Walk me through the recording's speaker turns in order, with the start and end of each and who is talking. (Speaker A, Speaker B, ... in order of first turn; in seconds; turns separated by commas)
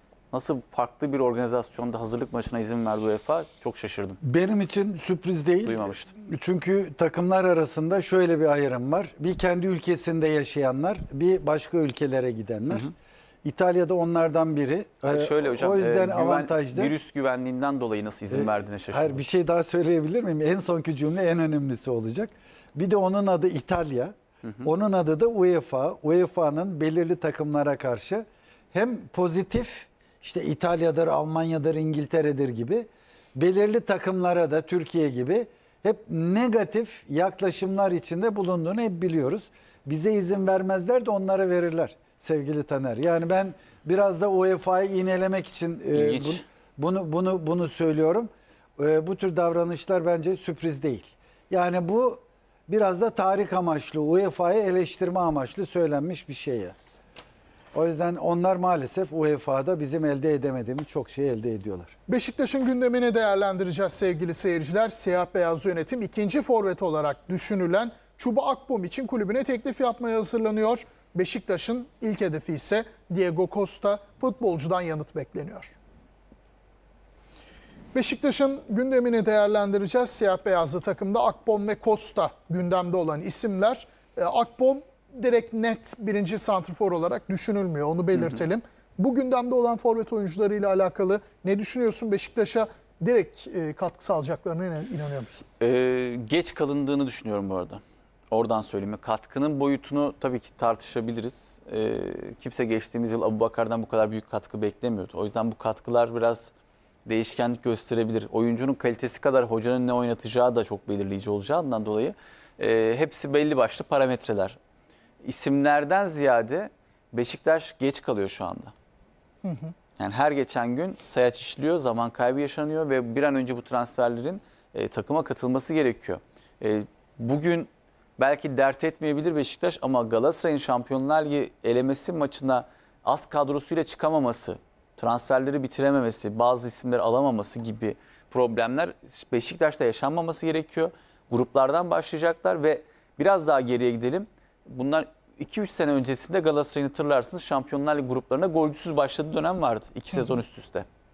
Speaker A: 0.3-4.2, Speaker B: 4.2-12.9, Speaker A: 5.6-6.1, Speaker B: 13.4-16.9, Speaker A: 15.1-19.2, Speaker B: 18.3-56.8, Speaker A: 45.9-46.4, Speaker B: 57.7-61.9, Speaker C: 62.1-75.8, Speaker C: 77.9-95.5, Speaker A: 95.6-106.5, Speaker A: 107.1-114.6, Speaker A: 115.2-118.7, Speaker C: 119.4-119.7, Speaker A: 120.0-150.8